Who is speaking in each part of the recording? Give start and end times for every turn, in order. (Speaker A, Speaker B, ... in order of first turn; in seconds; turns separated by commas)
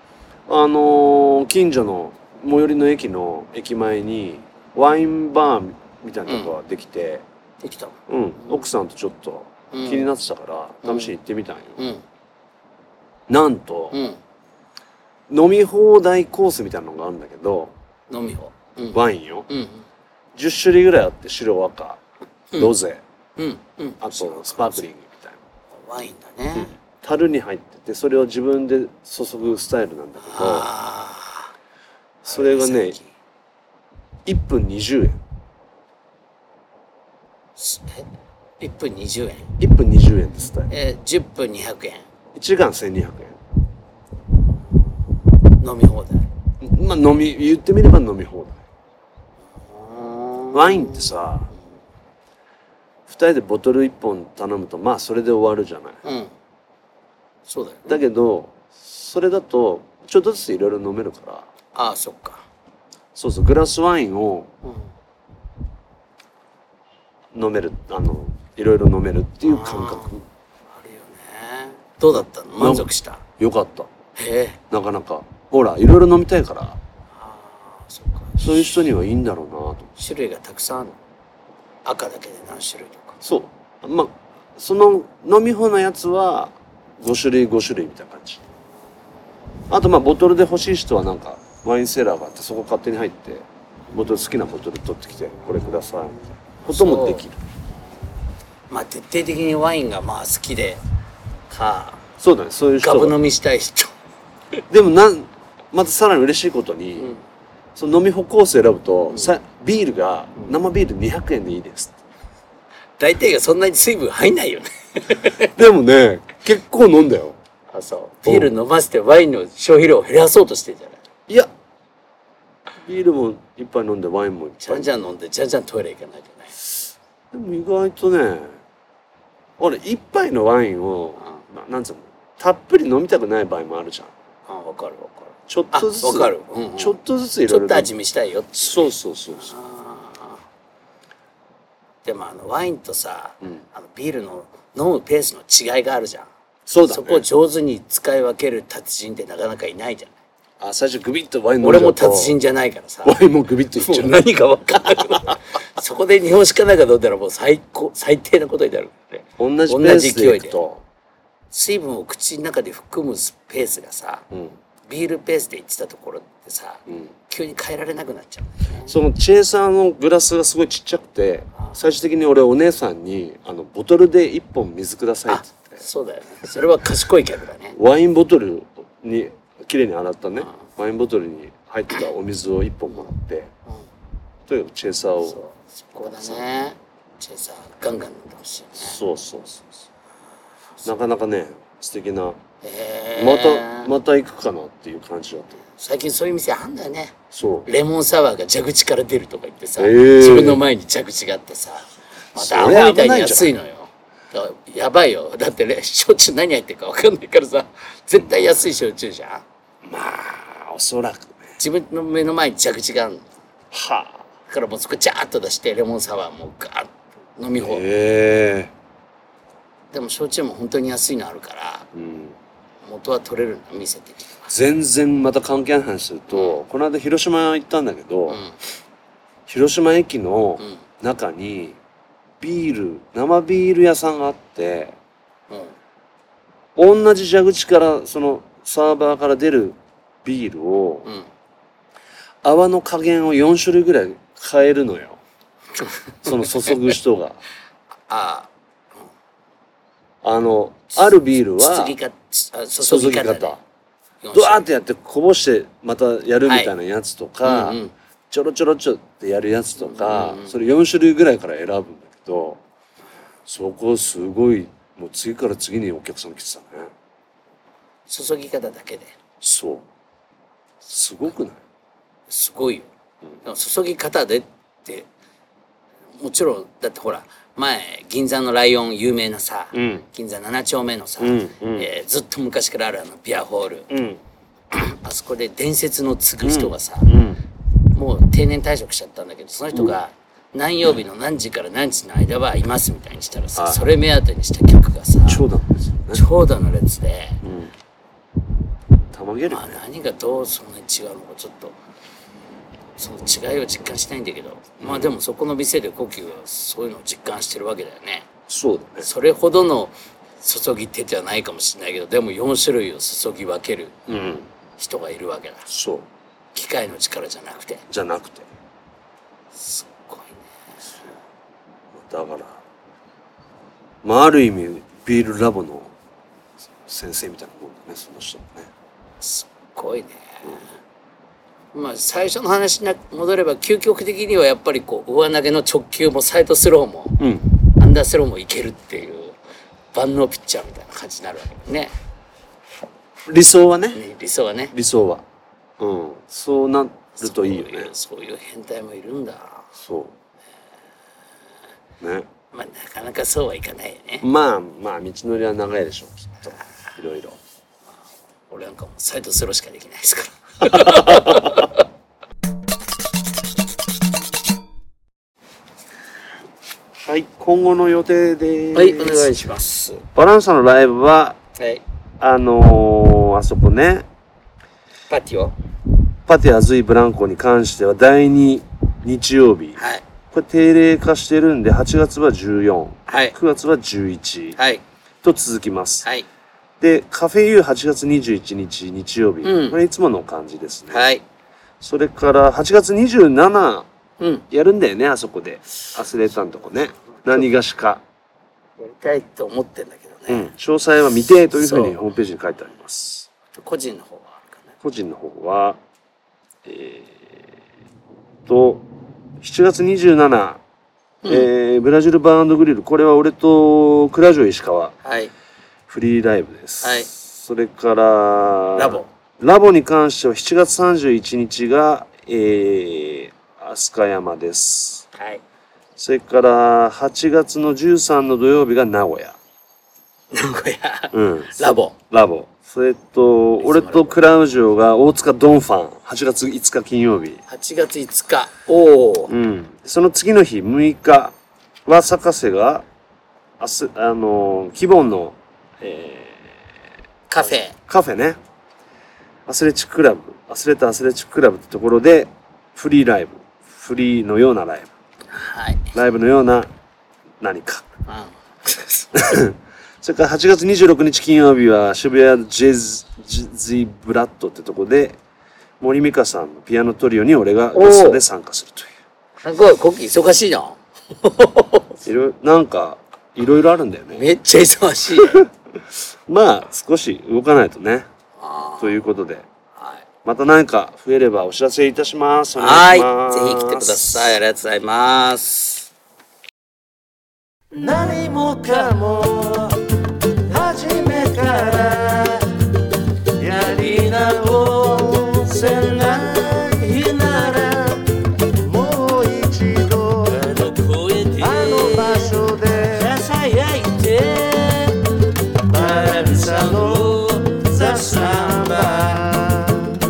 Speaker A: 0.5-7.2, Speaker B: 6.2-6.5, Speaker B: 7.6-8.0, Speaker A: 8.1-11.8, Speaker B: 9.7-10.1, Speaker B: 10.8-11.1, Speaker B: 11.8-12.0, Speaker A: 13.3-13.9, Speaker B: 13.9-14.2, Speaker A: 15.3-17.7, Speaker B: 18.1-19.8, Speaker A: 18.9-19.5, Speaker A: 20.3-22.0, Speaker A: 22.5-23.0, Speaker B: 23.4-24.9, Speaker A: 24.0-25.4, Speaker B: 25.8-26.7, Speaker A: 26.5-30.7, Speaker B: 30.2-31.5, Speaker A: 32.2-33.0, Speaker B: 32.2-33.1, Speaker A: 34.2-35.2, Speaker B: 37.6-38.1, Speaker B: 38.6-39.5, Speaker A: 39.6-40.7, Speaker B: 40.7-42.0, Speaker A: 42.3-43.4, Speaker B: 45.6-46.3, Speaker A: 46.6-48.6, Speaker B: 49.6-51.2, Speaker A: 50.5-51.5, Speaker A: 53.1-56.0, Speaker B: 56.0-56.3, Speaker B: 57.5-58.0, Speaker A: 57.9-61.5, Speaker B: 61.7-62.4, Speaker A: 63.1-64.5, Speaker A: 67.3-70.2, Speaker B: 69.4-70.2, Speaker B: 70.7-73.2, Speaker A: 72.1-73.9, Speaker B: 74.2-74.6, Speaker A: 74.7-76.8, Speaker B: 77.2-78.8, Speaker A: 78.4-79.9, Speaker B: 80.0-81.0, Speaker B: 81.8-83.2, Speaker A: 83.2-88.4, Speaker A: 89.7-97.4, Speaker B: 96.6-97.2, Speaker B: 98.7-100.8, Speaker B: 101.5-102.0, Speaker A: 102.2-103.2, Speaker B: 102.8-103.9, Speaker A: 104.7-107.2, Speaker A: 107.7-112.0, Speaker B: 113.0-115.5, Speaker A: 115.5-117.4, Speaker B: 117.7-121.0, Speaker A: 118.2-118.5, Speaker A: 122.8-124.9, Speaker B: 124.6-126.6, Speaker A: 127.3-128.6, Speaker A: 129.6-134.1, Speaker B: 134.5-140.4, Speaker A: 135.5-137.9, Speaker A: 138.6-139.5, Speaker B: 142.0-146.3, Speaker A: 146.7-147.2, Speaker B: 146.8-150.1, Speaker A: 150.6-152.4, Speaker B: 151.6-153.2, Speaker A: 153.0-154.2, Speaker B: 153.7-160.6, Speaker A: 154.8-155.3, Speaker A: 159.4-160.8, Speaker B: 161.5-164.2, Speaker B: 164.9-168.9, Speaker A: 168.8-175.8, Speaker B: 175.3-177.8, Speaker A: 177.7-183.5, Speaker A: 184.5-185.4, Speaker B: 185.2-189.0, Speaker A: 188.8-189.7, Speaker A: 190.8-192.4, Speaker B: 192.6-193.9, Speaker A: 193.2-195.6, Speaker B: 195.7-209.4, Speaker A: 197.3-197.7, Speaker A: 199.8-200.6, Speaker A: 202.3-203.5, Speaker A: 208.2-208.6, Speaker A: 209.8-211.5, Speaker B: 211.6-213.2, Speaker A: 213.7-214.2, Speaker B: 214.5-217.8, Speaker A: 217.6-218.7, Speaker B: 219.9-221.9, Speaker A: 221.9-222.3, Speaker B: 222.8-224.4, Speaker A: 224.5-228.4, Speaker B: 226.3-226.6, Speaker B: 228.3-228.6, Speaker A: 229.5-231.8, Speaker A: 232.4-235.0, Speaker B: 235.5-235.8, Speaker A: 236.8-241.1, Speaker A: 242.4-245.2, Speaker A: 246.2-247.4, Speaker B: 248.1-248.5, Speaker A: 250.2-251.9, Speaker B: 250.9-253.6, Speaker A: 252.8-253.6, Speaker B: 254.2-254.6, Speaker A: 254.3-262.6, Speaker B: 256.4-256.7, Speaker B: 257.4-257.9, Speaker B: 259.8-260.5, Speaker A: 263.5-266.9, Speaker B: 268.1-269.1, Speaker A: 269.4-269.8, Speaker A: 270.8-271.6, Speaker B: 272.3-272.9, Speaker B: 273.4-275.1, Speaker B: 276.2-283.9, Speaker A: 279.7-280.0, Speaker A: 281.2-281.9, Speaker A: 283.9-284.2, Speaker B: 284.7-287.1, Speaker A: 286.4-287.4, Speaker B: 287.9-295.4, Speaker A: 293.6-293.9, Speaker A: 295.2-296.2, Speaker B: 296.1-297.4, Speaker A: 297.4-297.7, Speaker A: 299.1-299.8, Speaker B: 299.5-301.8, Speaker B: 303.0-308.3, Speaker A: 304.8-305.2, Speaker A: 308.5-309.1, Speaker B: 309.0-313.9, Speaker A: 314.1-314.5, Speaker B: 314.8-315.6, Speaker A: 315.7-316.1, Speaker B: 316.5-317.8, Speaker A: 317.9-318.5, Speaker B: 319.5-321.1, Speaker A: 321.9-322.6, Speaker A: 324.0-325.9, Speaker A: 326.9-328.7, Speaker B: 329.2-330.7, Speaker B: 331.7-337.2, Speaker A: 337.2-337.5, Speaker B: 337.8-339.4, Speaker B: 339.9-341.9, Speaker A: 343.3-344.0, Speaker B: 343.9-344.7, Speaker A: 344.7-345.2, Speaker A: 345.8-347.9, Speaker B: 347.2-349.7, Speaker A: 349.7-350.1, Speaker A: 352.0-352.3, Speaker B: 352.5-354.3, Speaker A: 354.2-357.4, Speaker B: 358.5-361.8, Speaker A: 360.6-361.7, Speaker A: 367.0-369.3, Speaker B: 368.7-370.0, Speaker A: 370.1-371.4, Speaker B: 371.6-371.8, Speaker A: 372.2-374.1, Speaker B: 375.1-375.5, Speaker A: 376.3-379.8, Speaker B: 379.8-380.0, Speaker A: 380.3-384.6, Speaker B: 383.1-383.4, Speaker B: 384.6-384.8, Speaker A: 385.2-386.1, Speaker A: 386.8-391.1, Speaker B: 389.4-389.8, Speaker B: 390.9-391.2, Speaker A: 391.8-393.9, Speaker B: 394.2-394.4, Speaker A: 394.5-398.0, Speaker B: 398.8-400.5, Speaker A: 400.3-403.3, Speaker B: 401.6-401.9, Speaker B: 403.5-404.7, Speaker A: 404.8-405.8, Speaker A: 406.6-407.4, Speaker A: 408.4-408.9, Speaker A: 409.4-410.6, Speaker B: 411.2-411.5, Speaker A: 411.2-414.9, Speaker B: 415.0-415.3, Speaker A: 415.9-425.1, Speaker B: 416.8-417.1, Speaker B: 418.8-419.1, Speaker B: 425.1-425.4, Speaker A: 426.0-429.4, Speaker B: 430.3-431.9, Speaker A: 431.1-437.4, Speaker B: 433.6-434.1, Speaker B: 437.5-439.3, Speaker A: 439.3-441.3, Speaker A: 441.9-442.8, Speaker A: 443.6-446.6, Speaker B: 447.3-447.7, Speaker A: 447.4-448.4, Speaker A: 449.5-454.9, Speaker B: 455.3-455.9, Speaker A: 455.9-456.7, Speaker A: 457.4-457.9, Speaker B: 458.1-459.1, Speaker A: 459.1-465.1, Speaker A: 465.8-468.9, Speaker B: 467.7-468.2, Speaker B: 469.4-471.9, Speaker A: 472.0-474.2, Speaker B: 474.1-475.4, Speaker A: 475.1-475.5, Speaker A: 476.3-478.1, Speaker B: 478.4-478.9, Speaker A: 478.8-479.4, Speaker A: 480.2-484.4, Speaker B: 482.6-485.9, Speaker C: 487.7-492.5, Speaker C: 493.4-505.1, Speaker B: 500.4-501.9, Speaker C: 505.6-509.6, Speaker A: 507.8-509.5